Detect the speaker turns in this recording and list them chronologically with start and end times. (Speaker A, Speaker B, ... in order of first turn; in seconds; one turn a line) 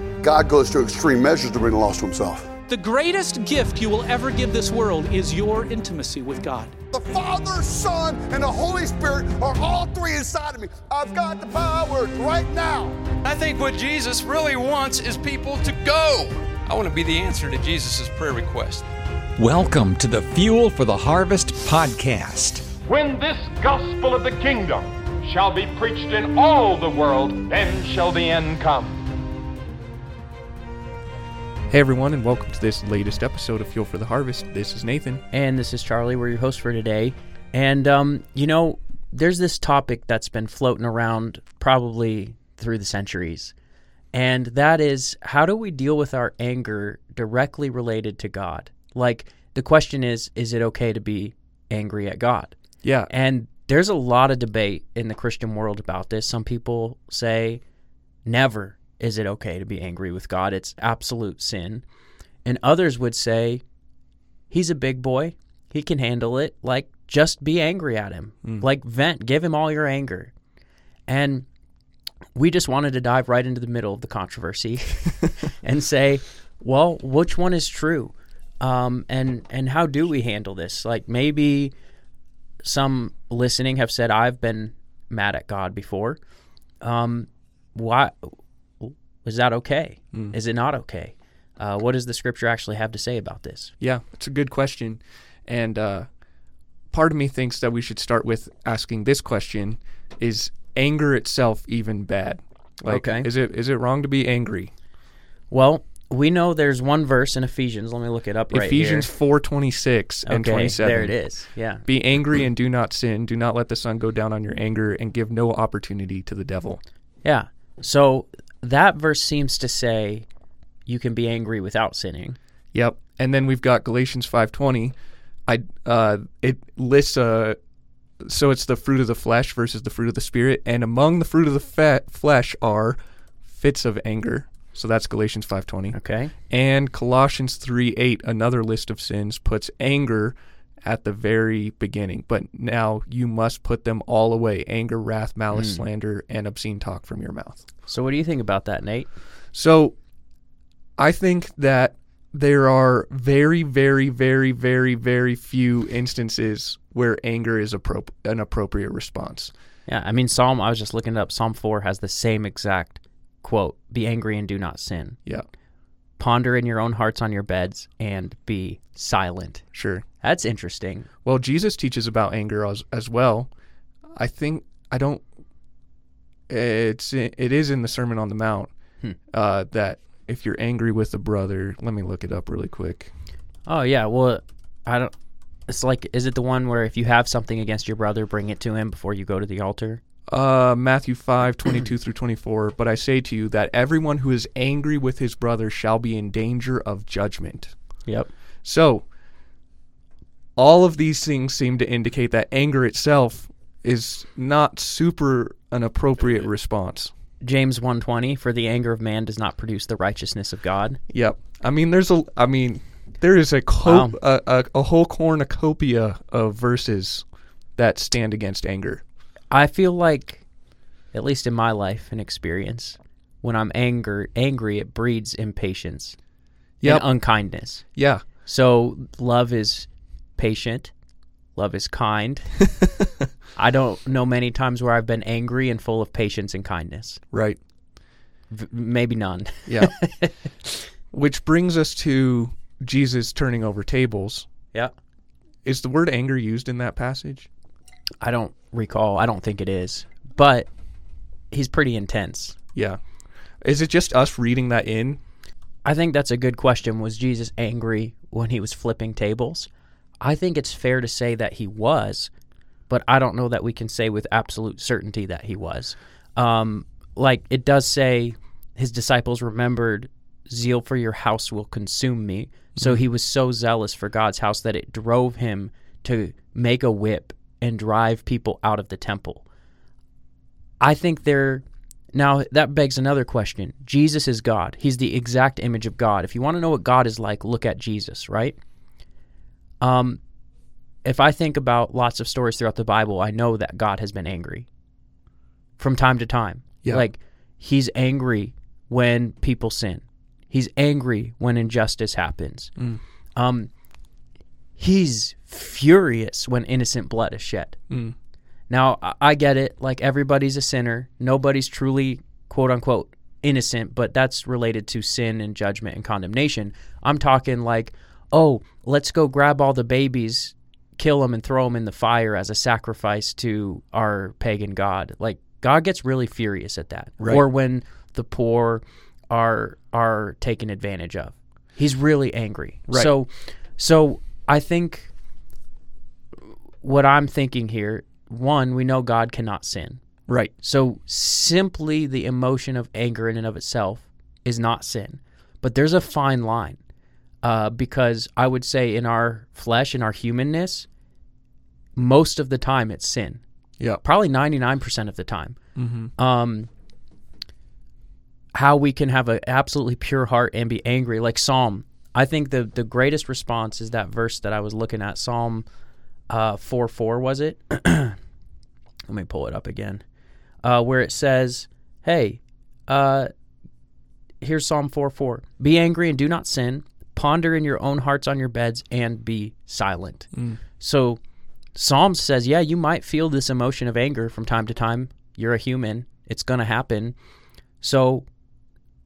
Speaker A: 0.2-2.5
Speaker B: 2.7-6.7
Speaker A: 6.9-13.0
Speaker C: 13.2-18.9
Speaker D: 19.4-22.7
Speaker E: 22.8-29.0
Speaker F: 31.7-35.2
Speaker G: 35.3-43.5
Speaker G: 44.1-52.5
Speaker F: 52.8-53.1
Speaker G: 53.1-57.6
Speaker G: 58.2-61.8
Speaker G: 62.4-63.6
Speaker G: 64.5-70.3
Speaker G: 71.1-71.5
Speaker G: 72.3-81.7
Speaker G: 82.6-86.2
Speaker G: 86.8-93.7
Speaker F: 93.8-96.1
Speaker F: 96.9-104.7
Speaker G: 102.9-103.3
Speaker G: 105.5-109.1
Speaker F: 108.5-111.1
Speaker G: 110.2-111.8
Speaker F: 111.8-116.8
Speaker G: 117.2-120.2
Speaker G: 120.9-122.4
Speaker F: 122.7-124.9
Speaker F: 125.5-127.6
Speaker F: 128.2-133.0
Speaker F: 133.5-136.0
Speaker G: 135.9-136.3
Speaker F: 136.5-147.6
Speaker G: 145.5-145.8
Speaker G: 147.9-149.1
Speaker F: 149.5-149.9
Speaker F: 151.0-159.5
Speaker G: 159.9-165.2
Speaker G: 166.2-169.7
Speaker F: 169.7-170.0
Speaker G: 170.2-171.1
Speaker F: 171.2-173.5
Speaker F: 174.2-175.2
Speaker F: 176.5-178.7
Speaker F: 179.3-183.1
Speaker G: 183.7-185.1
Speaker G: 185.7-190.0
Speaker F: 190.3-197.7
Speaker F: 198.6-199.1
Speaker F: 200.6-207.1
Speaker G: 207.4-211.0
Speaker F: 211.1-217.2
Speaker G: 213.8-214.2
Speaker F: 217.8-219.0
Speaker G: 219.5-220.4
Speaker G: 221.1-226.2
Speaker F: 226.8-227.1
Speaker G: 226.8-227.8
Speaker F: 227.9-228.2
Speaker G: 228.4-230.9
Speaker G: 231.6-232.5
Speaker G: 233.6-237.2
Speaker F: 237.3-237.6
Speaker G: 238.5-240.8
Speaker F: 239.7-239.9
Speaker F: 241.1-244.5
Speaker F: 245.6-247.5
Speaker G: 248.2-250.7
Speaker G: 251.5-252.6
Speaker F: 253.6-255.2
Speaker G: 255.8-259.7
Speaker G: 260.2-262.3
Speaker G: 262.9-279.4
Speaker F: 272.8-273.0
Speaker G: 280.8-288.6
Speaker G: 289.8-290.2
Speaker G: 291.0-294.7
Speaker G: 295.8-302.7
Speaker G: 303.4-303.7
Speaker G: 304.8-307.8
Speaker F: 307.9-308.1
Speaker G: 308.7-335.1
Speaker F: 327.2-327.4
Speaker G: 336.8-340.0
Speaker G: 340.6-346.8
Speaker G: 347.4-350.9
Speaker G: 351.9-353.4
Speaker G: 354.0-355.6
Speaker F: 355.8-356.1
Speaker G: 356.2-356.7
Speaker G: 358.5-365.6
Speaker G: 366.3-368.2
Speaker G: 369.1-370.0
Speaker G: 370.6-373.3
Speaker G: 374.4-381.2
Speaker G: 381.8-387.1
Speaker G: 387.8-388.2